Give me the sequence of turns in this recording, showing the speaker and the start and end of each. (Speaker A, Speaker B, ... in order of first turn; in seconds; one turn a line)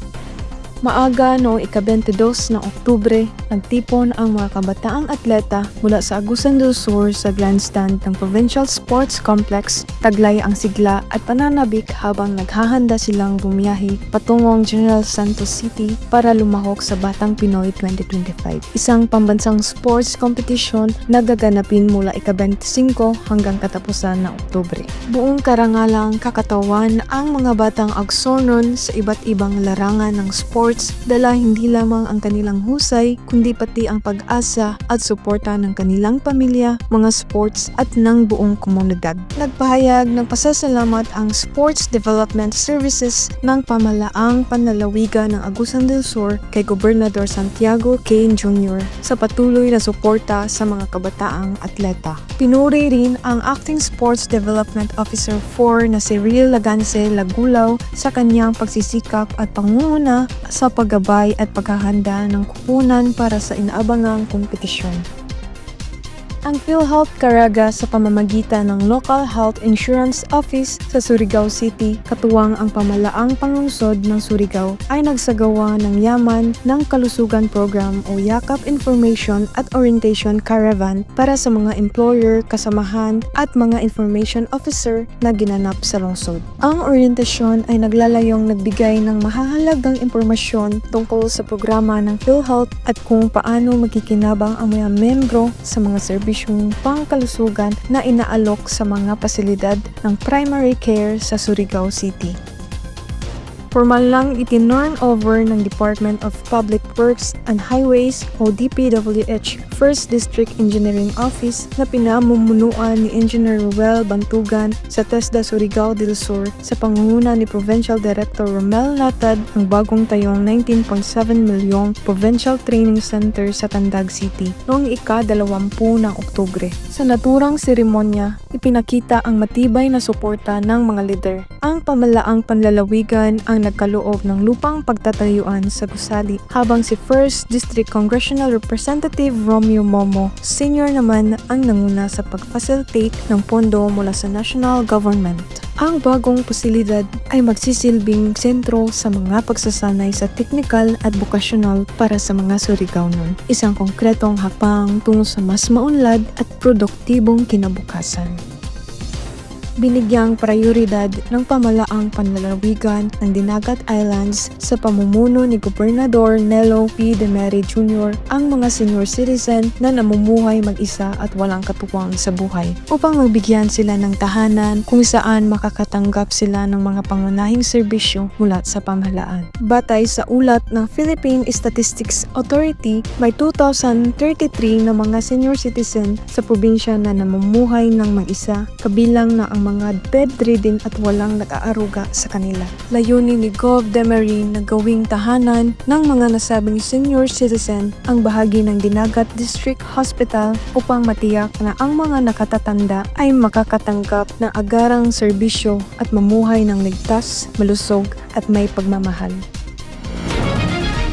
Speaker A: 0.8-65.0
Speaker A: 66.5-102.3
Speaker A: 103.7-158.4
Speaker A: 159.8-209.4